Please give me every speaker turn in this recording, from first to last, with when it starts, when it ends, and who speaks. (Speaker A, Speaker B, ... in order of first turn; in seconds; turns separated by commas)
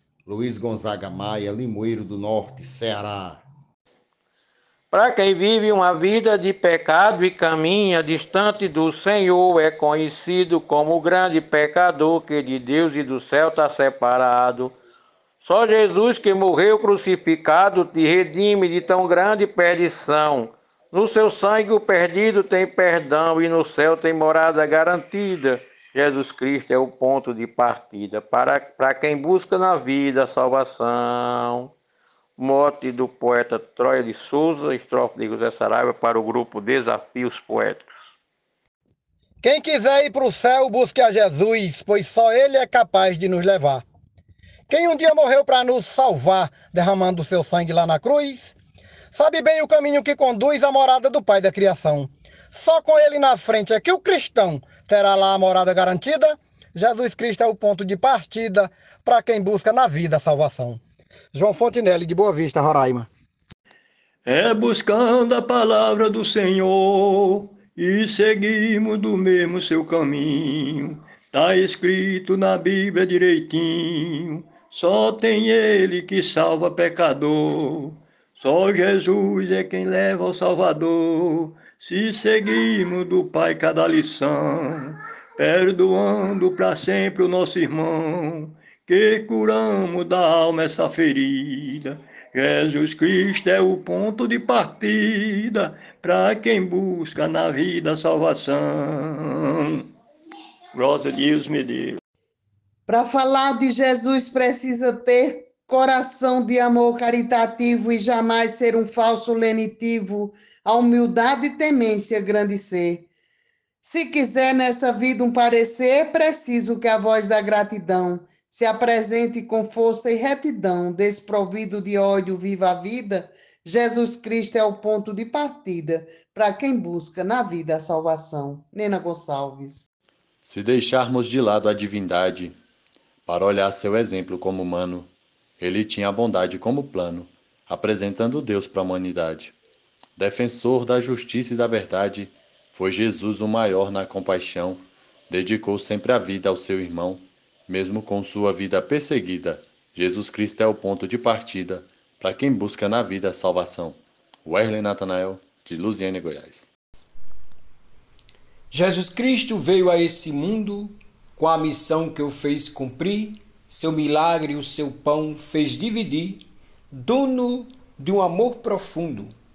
Speaker A: 0.2-3.4, Speaker B: 4.9-14.7, Speaker B: 15.5-31.7, Speaker B: 32.4-37.9, Speaker C: 39.4-43.8, Speaker C: 44.7-48.5, Speaker C: 49.1-60.8, Speaker C: 61.3-63.1, Speaker D: 64.3-99.8, Speaker D: 100.7-102.0, Speaker E: 102.9-113.1, Speaker E: 113.8-129.9, Speaker F: 130.4-132.6, Speaker F: 133.3-139.5, Speaker F: 140.2-156.7, Speaker G: 158.7-169.3